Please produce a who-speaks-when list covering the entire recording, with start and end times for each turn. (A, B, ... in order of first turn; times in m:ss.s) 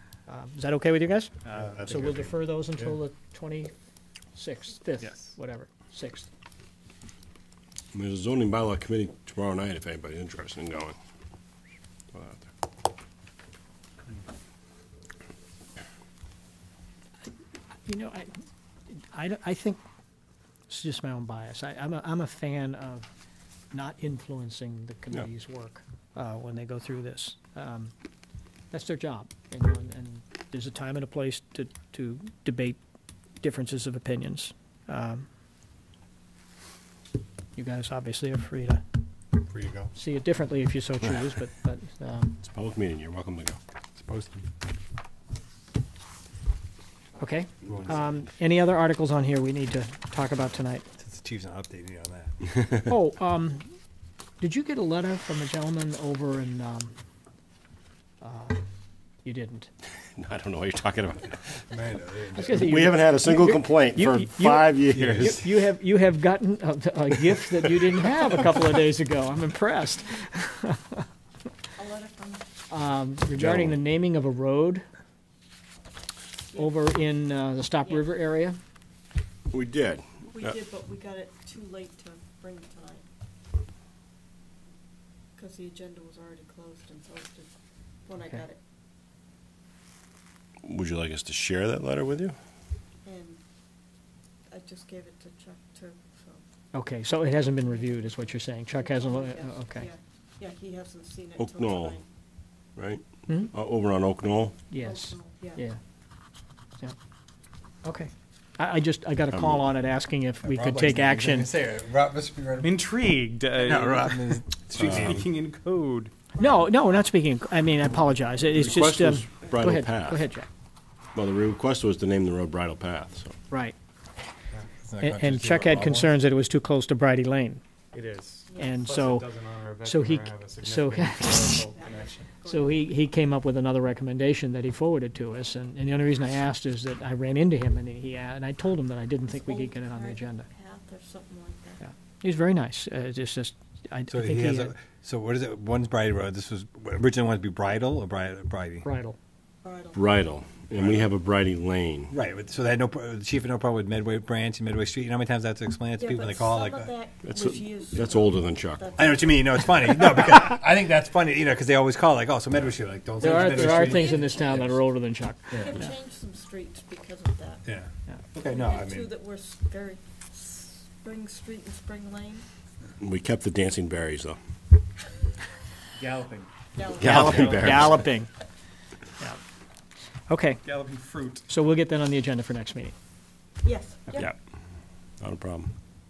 0:00.3-0:03.7 A
0:01.4-0:01.9 B
0:01.5-0:03.0 C
0:04.3-0:06.3 A
0:05.0-0:05.4 B
0:07.9-0:11.0 D
0:12.1-0:12.5 D
0:17.8-0:18.3 A
0:18.9-0:19.8 A
0:20.7-0:23.1 A
0:23.7-0:27.9 A
0:28.7-0:32.8 A
0:33.4-0:35.3 A
0:37.6-0:38.8 A
0:39.4-0:39.9 C
0:39.9-0:42.4 A
0:42.4-0:43.6 D
0:44.0-0:44.5 C
0:47.2-0:50.8 A
0:47.6-0:48.0 C
0:51.0-0:52.4 C
0:52.8-0:53.7 A
0:54.4-0:56.9 A
0:58.2-0:58.6 A
0:59.2-0:59.7 A
1:00.2-1:01.6 D
1:01.7-1:02.6 C
1:02.4-1:11.0 A
1:02.5-1:05.4 D
1:04.9-1:05.5 C
1:11.8-1:12.4 E
1:12.7-1:14.8 A
1:13.3-1:13.8 D
1:16.5-1:16.8 E
1:16.5-1:18.6 A
1:19.5-1:20.5 D
1:20.3-1:23.0 E
1:25.4-1:27.5 E
1:28.0-1:28.6 E
1:30.6-1:32.4 D
1:33.0-1:33.4 E
1:34.5-1:36.4 E
1:36.7-1:39.9 A
1:37.6-1:42.0 E
1:41.4-1:42.0 D
1:42.8-1:44.6 D
1:43.3-1:43.5 A
1:44.7-1:45.8 A
1:44.8-1:45.6 E
1:47.8-1:51.5 A
1:49.3-1:49.7 D
1:50.4-1:52.9 C
1:52.6-1:56.1 B
1:53.6-1:55.3 C
1:56.4-2:00.5 A
1:58.6-2:00.2 D
2:01.1-2:03.3 D
2:03.5-2:03.7 A
2:04.8-2:06.1 C
2:05.0-2:07.6 A
2:07.9-2:12.3 B
2:08.5-2:08.8 E
2:08.6-2:09.3 A
2:09.8-2:11.6 A
2:11.7-2:12.9 E
2:12.4-2:20.5 A
2:19.3-2:21.8 E
2:21.8-2:24.7 A
2:24.1-2:28.8 C
2:28.8-2:29.2 A
2:29.6-2:30.1 E
2:29.9-2:32.1 D
2:30.8-2:31.1 C
2:32.1-2:37.0 C
2:36.0-2:40.2 E
2:37.2-2:38.9 D
2:39.0-2:44.7 C
2:43.2-2:45.9 A
2:43.8-2:44.7 E
2:45.5-2:47.6 E
2:47.6-2:49.1 C
2:48.4-2:52.4 E
2:53.0-2:54.4 D
2:55.9-2:56.5 B
2:56.7-2:57.5 E
2:56.9-2:58.0 D
2:57.0-2:58.3 A
2:57.2-2:58.0 B
3:00.3-3:00.6 A
3:00.6-3:01.5 B
3:01.5-3:02.9 A
3:03.6-3:04.3 E
3:05.2-3:05.7 D